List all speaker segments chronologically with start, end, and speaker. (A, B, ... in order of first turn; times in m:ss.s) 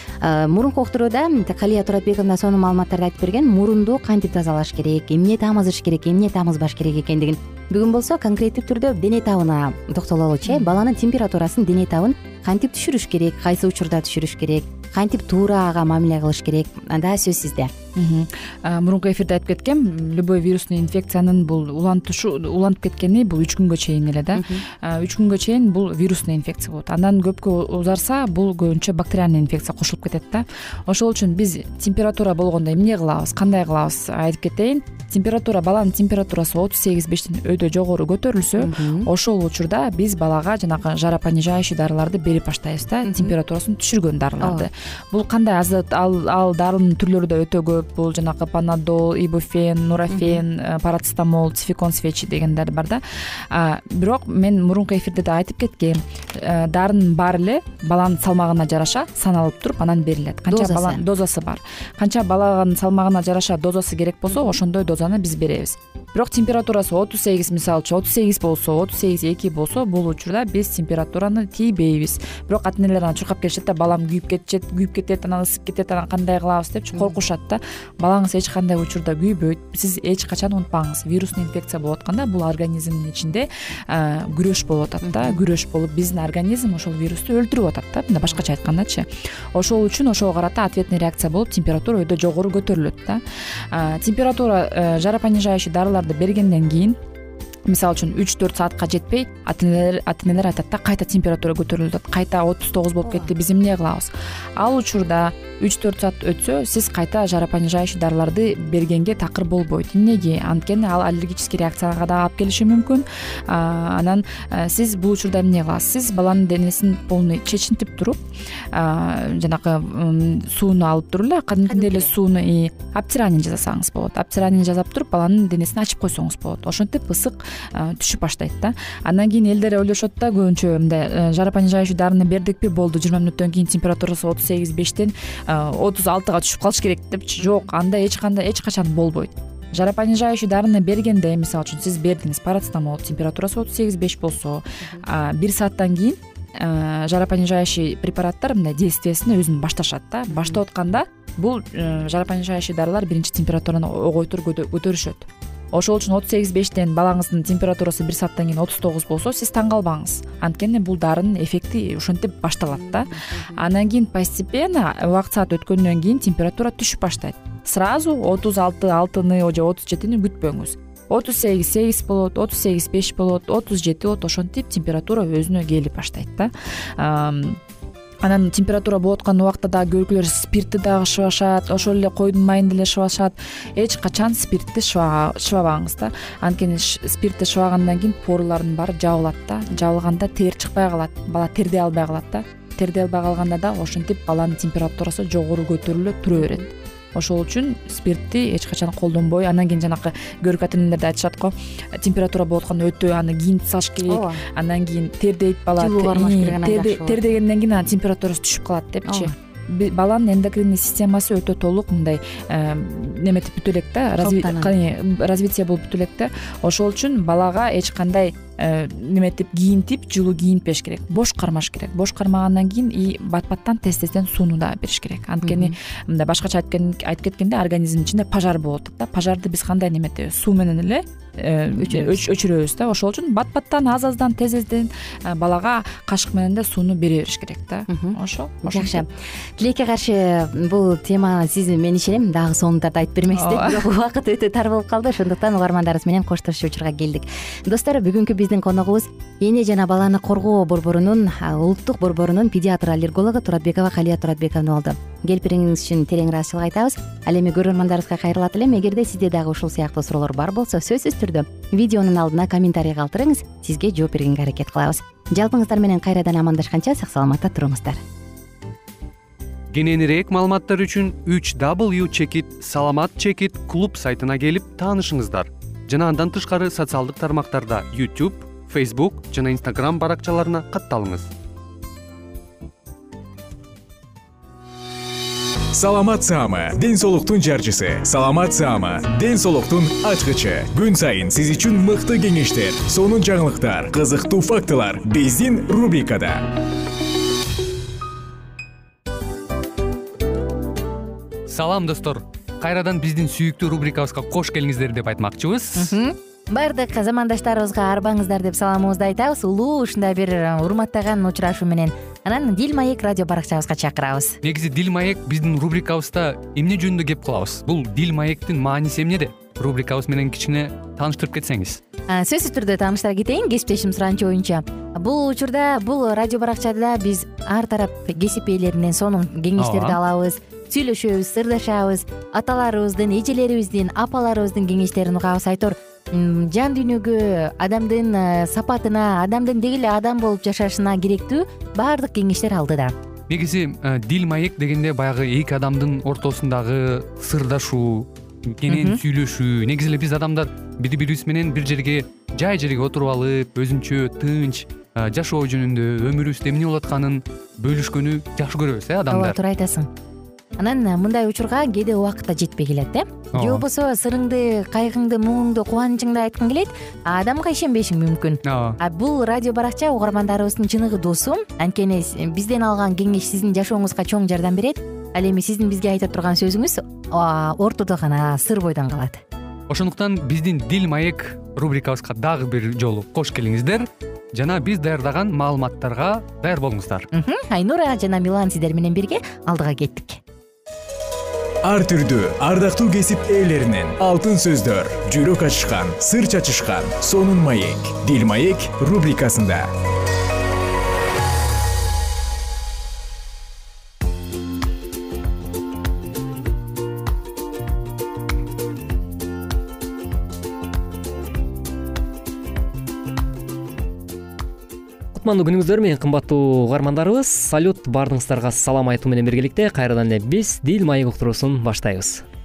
0:00.2-0:17.7 A
0:10.5-0:10.8 B
0:18.0-1:37.0 B
0:24.4-0:24.6 A
0:38.6-0:39.1 A
0:43.0-0:43.3 A
0:44.4-0:44.7 A
0:50.1-0:50.4 A
1:00.5-1:01.0 A
1:04.3-1:04.6 A
1:25.0-1:25.4 A
1:37.7-1:58.2 B
1:58.7-2:57.6 B
2:01.7-2:02.1 A
2:30.3-2:30.6 A
2:58.2-3:59.0 B
3:16.3-3:16.6 A
3:24.1-3:24.4 A
3:25.8-3:27.2 A
3:34.2-3:34.7 A
3:45.4-3:45.7 A
3:51.8-3:52.2 A
3:57.9-4:28.0 A
4:03.3-4:03.9 B
4:29.7-4:41.3 C
4:45.7-4:56.4 D
5:01.5-5:06.0 C
5:05.8-5:14.4 A
5:14.4-5:21.8 C
5:22.1-5:43.0 A
5:29.6-5:30.0 C
5:43.3-5:59.4 C
5:48.7-5:49.0 A
5:59.1-5:59.9 A
6:00.6-6:19.2 A
6:03.3-6:03.6 C
6:08.4-6:08.8 C
6:19.7-6:27.1 C
6:27.1-6:30.2 A
6:31.6-6:39.7 D
6:55.1-7:02.2 E